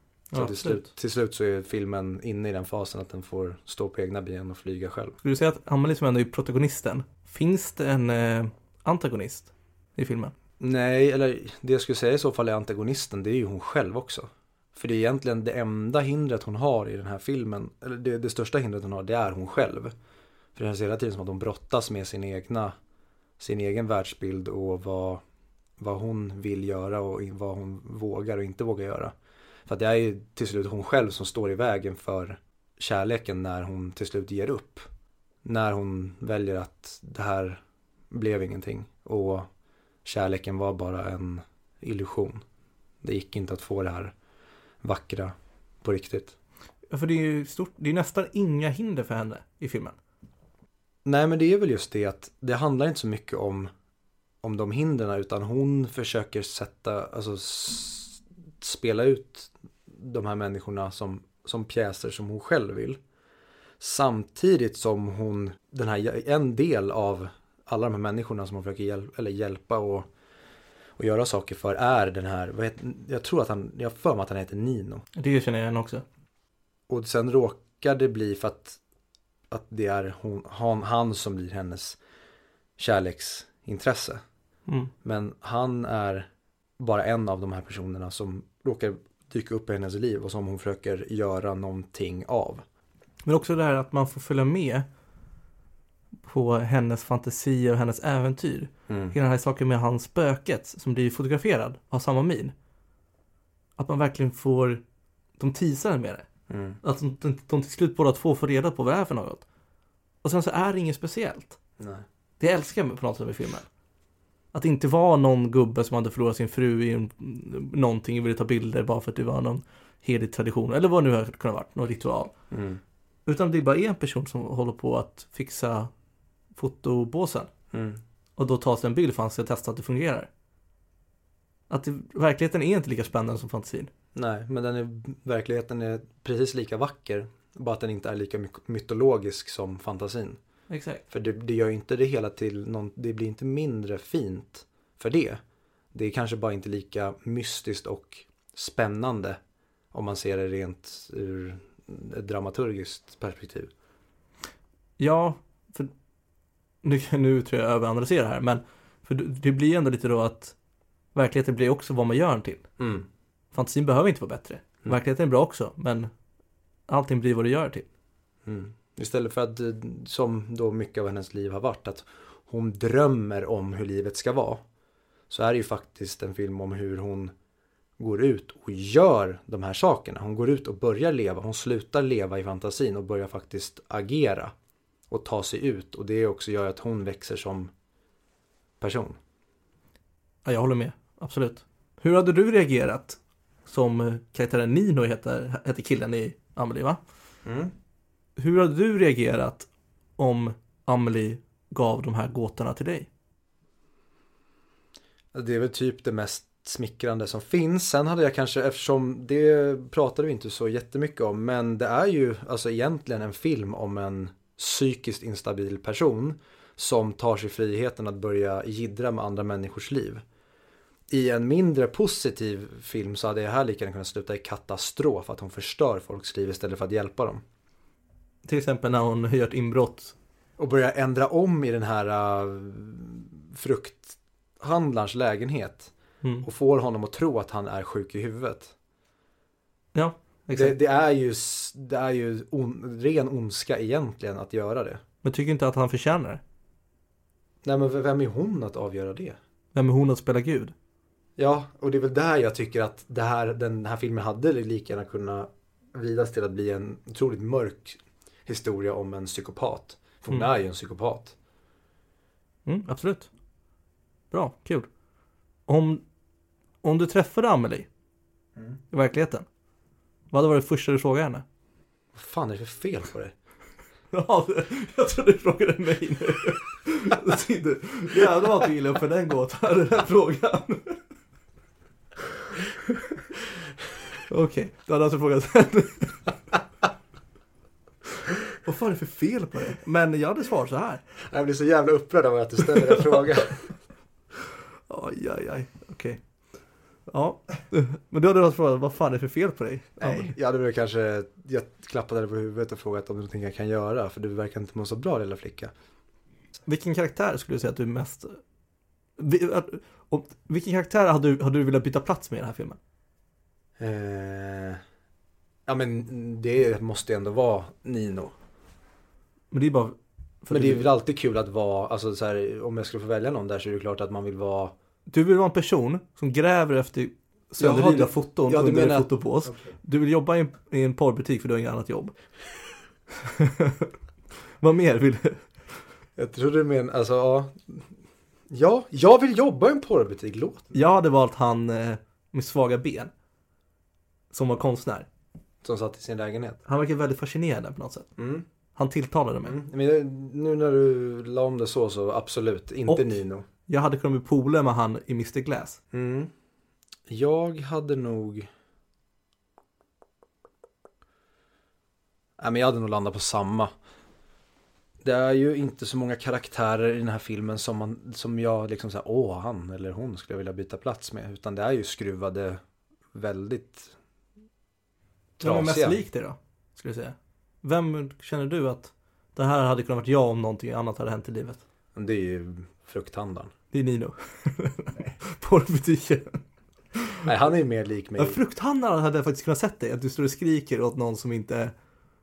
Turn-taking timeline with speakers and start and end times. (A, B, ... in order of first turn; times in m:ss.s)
0:00.3-0:00.9 A
0:00.3-0:05.2 B
0:05.2-0:10.3 A
0:10.6-0:19.9 B
0:20.6-0:22.7 B
0:23.4-0:25.2 B
0:25.8-0:29.1 B
0:29.7-0:34.9 B
0:35.4-0:39.5 B
0:40.0-0:42.4 B
0:43.0-0:44.1 B
0:44.8-0:46.4 B
0:46.9-0:50.0 A
0:51.0-0:53.7 B
0:54.4-1:03.0 B
1:03.8-1:10.1 B
1:11.0-1:15.0 B
1:15.2-1:16.0 A
1:16.9-1:18.8 B
1:19.5-1:22.0 B
1:22.8-1:24.2 B
1:24.7-1:24.9 A
1:25.0-1:26.3 B
1:26.8-1:32.6 B
1:33.2-1:34.9 A
1:36.2-1:42.5 A
1:38.9-1:39.1 B
1:43.8-1:44.8 A
1:45.4-1:46.3 A
1:46.5-1:46.8 B
1:46.8-1:49.4 A
1:50.2-1:51.6 A
1:51.8-1:52.0 B
1:52.4-1:53.7 A
1:54.5-2:02.3 A
2:02.5-2:02.8 B
2:03.3-2:05.9 A
2:06.6-2:07.5 A
2:07.7-2:08.0 B
2:08.4-2:10.3 A
2:11.7-2:13.9 A
2:14.2-2:20.4 B
2:20.7-2:21.0 A
2:21.1-2:25.4 B
2:25.9-2:29.4 B
2:29.9-2:33.7 B
2:35.0-2:35.9 A
2:36.8-2:40.6 A
2:41.2-2:42.6 A
2:42.8-2:43.1 B
2:43.5-2:46.1 A
2:46.9-2:47.9 A
2:48.4-2:54.6 B
2:55.3-2:57.3 B
2:58.0-3:04.5 B
3:05.1-3:07.7 B
3:08.8-3:09.2 B
3:10.4-3:17.0 A
3:17.4-3:17.7 B
3:18.4-3:23.1 A
3:25.3-3:40.2 B
3:41.1-3:47.4 B
3:48.4-3:50.2 A
3:50.6-3:55.9 B
3:56.4-3:58.7 B
4:00.0-4:00.8 A
4:00.5-4:05.0 B
4:05.2-4:06.4 A
4:07.6-4:09.4 B
4:09.7-4:10.7 A
4:11.4-4:21.4 B
4:22.7-4:23.3 A
4:24.3-4:24.9 A
4:25.7-4:26.0 A
4:26.8-4:27.9 A
4:28.9-4:29.4 A
4:30.3-4:31.4 A
4:32.1-4:33.3 B
4:34.1-4:41.0 A
4:44.3-4:46.3 A
4:48.6-4:51.0 A
4:51.2-4:53.7 B
4:54.9-4:56.2 A
4:57.1-5:00.4 A
5:00.0-5:05.7 B
5:06.6-5:08.4 A
5:09.2-5:12.8 A
5:13.8-5:14.8 B
5:15.7-5:18.4 B
5:19.5-5:20.9 A
5:20.5-5:24.7 B
5:25.1-5:32.2 A
5:27.6-5:29.8 B
5:33.2-5:33.9 A
5:34.6-5:35.8 A
5:36.2-5:37.9 B
5:38.5-5:40.8 B
5:40.7-5:43.1 A
5:44.3-5:45.1 A
5:45.6-5:46.6 B
5:46.7-5:48.1 A
5:48.2-5:48.5 B
5:48.8-5:49.6 A
5:49.4-5:53.4 B
5:52.9-5:53.2 A
5:53.7-5:55.8 A
5:55.9-5:56.3 B
5:57.1-5:58.5 B
6:02.4-6:03.7 B
6:05.0-6:12.6 B
6:13.1-6:14.0 B
6:15.4-6:16.0 B
6:15.4-6:21.6 A
6:22.0-6:23.5 B
6:23.7-6:26.4 A
6:27.0-6:27.3 A
6:27.2-6:28.4 B
6:28.2-6:31.7 A